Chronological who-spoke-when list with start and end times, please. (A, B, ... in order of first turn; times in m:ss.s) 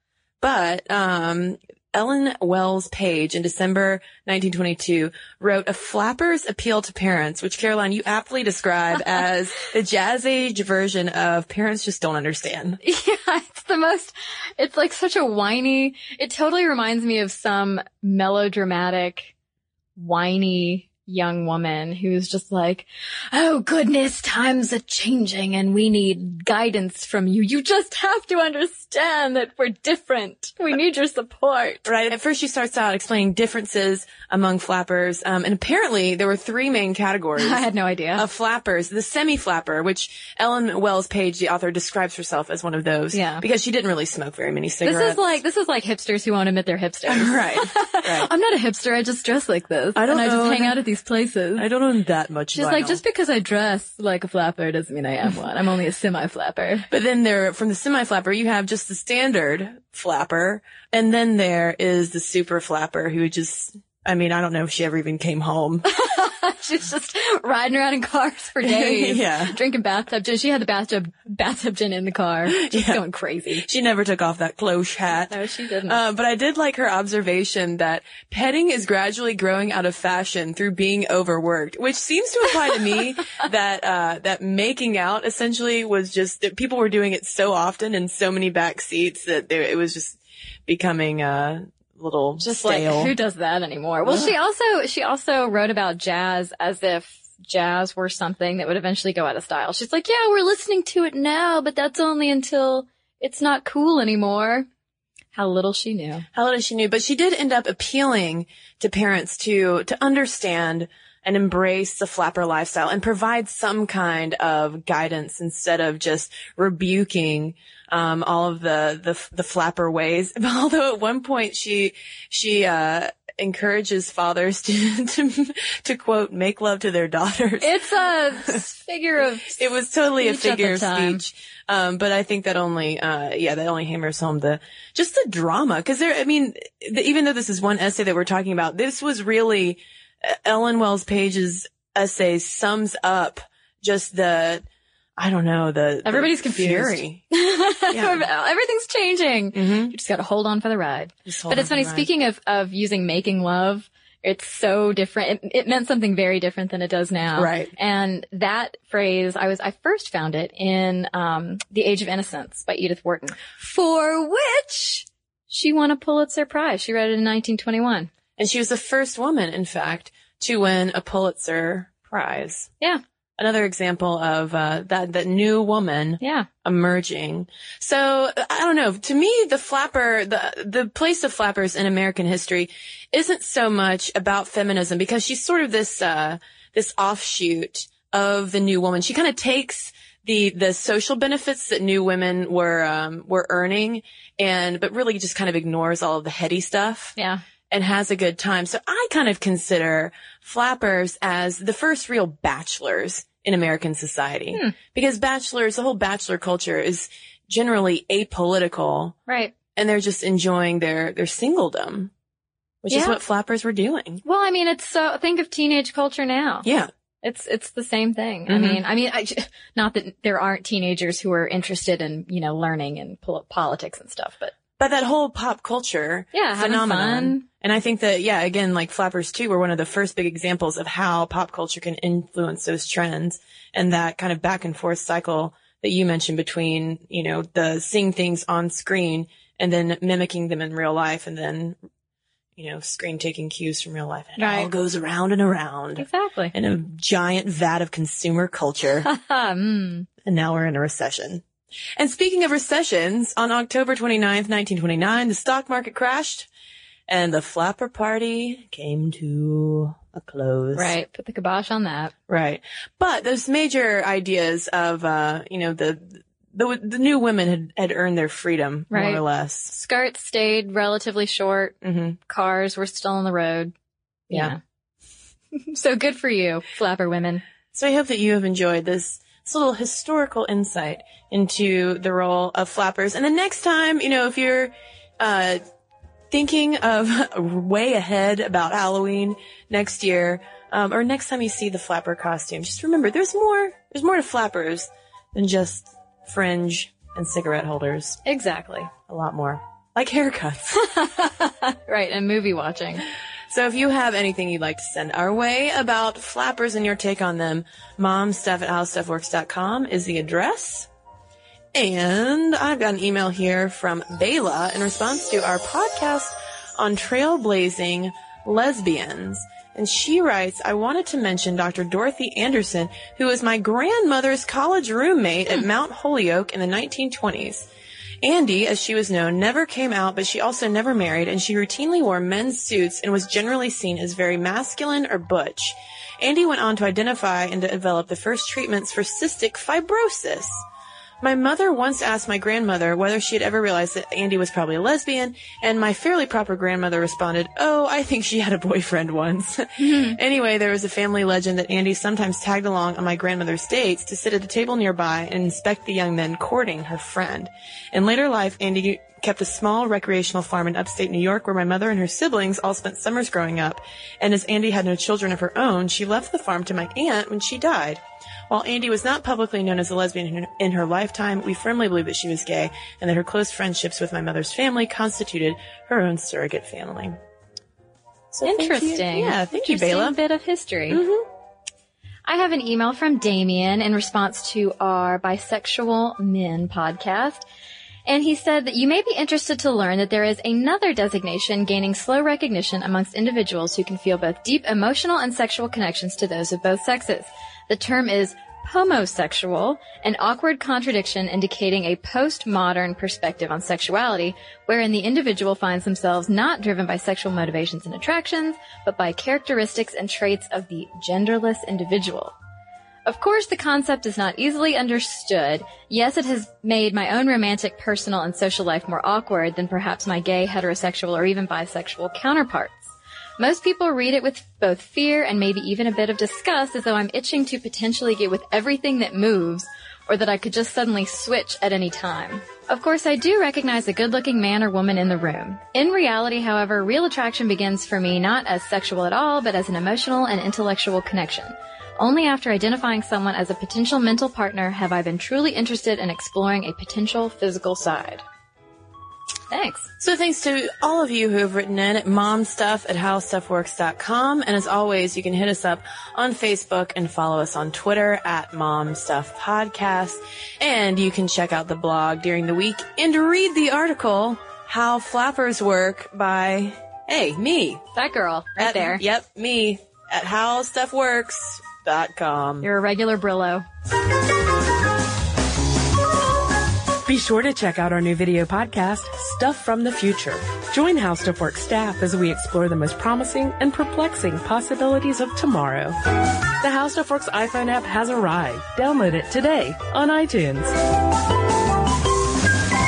0:00.4-0:12.8 A
0:12.8-0:19.3 B
0:20.0-0:31.9 B
0:31.8-0:37.6 A
0:37.4-0:38.2 B
0:38.2-0:45.4 A
0:43.1-0:43.4 B
0:44.8-0:51.7 B
0:47.1-0:48.3 A
0:50.0-0:50.8 A
0:51.6-0:53.0 A
0:52.5-0:56.9 B
0:56.9-1:05.8 A
1:05.9-1:13.7 B
1:08.6-1:09.6 A
1:12.5-1:13.0 A
1:13.6-1:33.1 A
1:15.3-1:16.0 B
1:32.4-1:44.7 B
1:34.1-1:34.3 A
1:45.3-1:46.2 B
1:46.3-2:07.8 A
2:07.6-2:09.7 B
2:09.6-2:24.6 A
2:10.2-2:11.2 B
2:25.2-2:27.2 A
2:26.0-2:48.1 B
2:27.9-2:28.2 A
2:29.5-2:29.9 A
2:31.3-2:32.1 A
2:37.4-2:37.7 A
2:48.4-2:52.7 A
2:53.4-3:17.1 A
2:56.2-2:56.5 B
3:17.2-3:17.4 B
3:17.7-3:29.2 A
3:29.3-3:29.5 B
3:29.8-3:32.1 A
3:32.8-3:34.2 A
3:32.9-3:33.2 B
3:34.2-3:36.7 B
3:36.6-3:36.9 A
3:37.2-3:44.5 B
3:38.5-3:38.8 A
3:44.8-4:01.8 A
3:46.3-3:47.4 B
4:02.6-4:09.1 A
4:04.4-4:04.7 B
4:06.0-4:06.5 B
4:09.0-4:10.1 B
4:10.2-4:11.4 A
4:12.0-4:16.5 A
4:17.1-4:21.0 A
4:20.7-4:22.1 B
4:22.3-4:29.7 A
4:28.9-4:31.8 B
4:31.8-4:32.2 A
4:32.3-4:33.7 B
4:34.3-4:34.6 B
4:35.5-4:37.4 B
4:37.7-4:45.6 A
4:46.3-4:58.2 A
4:58.2-4:58.9 B
4:59.1-5:00.9 A
5:00.8-5:03.0 B
5:03.5-5:10.9 A
5:11.7-5:27.7 A
5:28.2-5:40.6 A
5:41.2-6:17.2 A
5:49.8-5:50.2 B
6:18.3-6:20.2 A
6:18.4-6:21.0 B
6:20.9-6:21.3 A
6:22.3-6:27.4 B
6:28.1-6:52.4 B
6:53.1-7:28.2 B
7:29.5-7:29.9 B
7:30.0-7:47.8 A
7:47.9-7:49.0 B
7:48.6-7:52.7 A
7:52.6-7:53.6 B
7:57.1-8:06.0 C
8:06.6-8:10.8 C